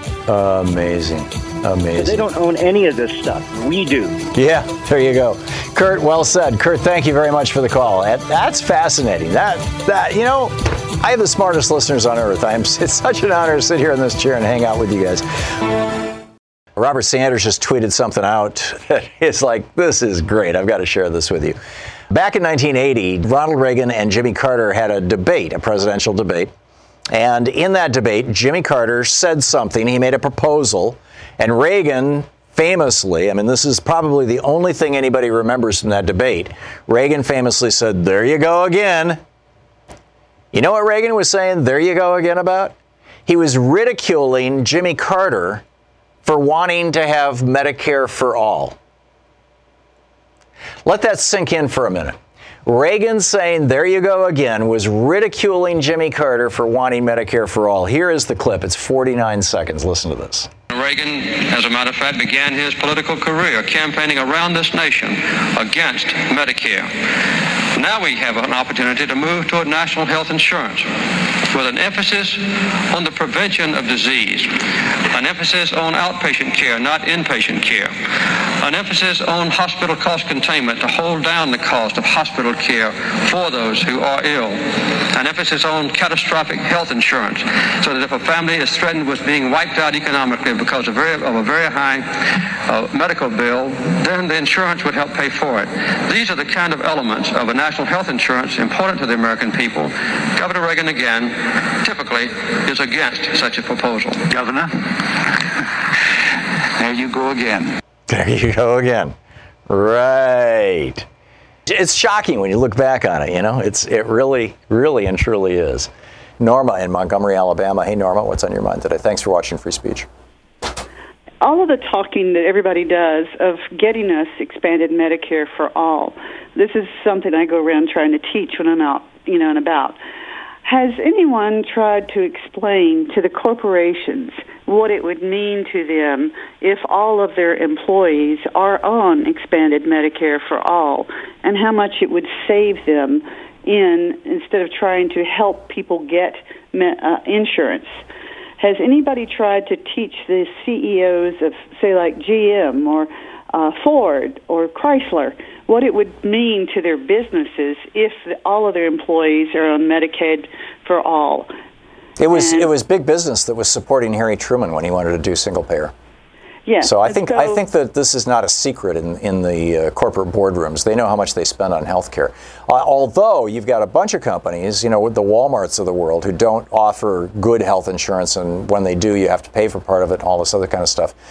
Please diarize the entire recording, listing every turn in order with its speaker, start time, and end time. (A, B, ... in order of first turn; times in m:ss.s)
0:00.3-0:02.2 A
0:02.0-0:04.2 B
0:04.3-0:15.3 A
0:16.8-0:21.6 A
0:22.1-0:26.5 A
0:27.1-0:39.2 A
0:40.5-0:42.7 A
0:43.3-0:45.6 A
0:46.2-0:48.8 A
0:50.9-1:00.5 A
1:00.7-1:10.9 C
1:11.4-1:44.3 C
1:44.3-1:45.4 D
1:46.8-1:47.7 D
1:48.1-1:49.2 A
1:49.7-1:51.1 A
1:51.7-2:00.1 A
2:01.4-2:10.0 E
2:10.6-2:28.0 E
2:28.6-2:41.5 E
2:42.2-2:45.9 A
2:42.3-2:42.7 E
2:46.7-2:47.6 E
2:46.8-3:01.1 A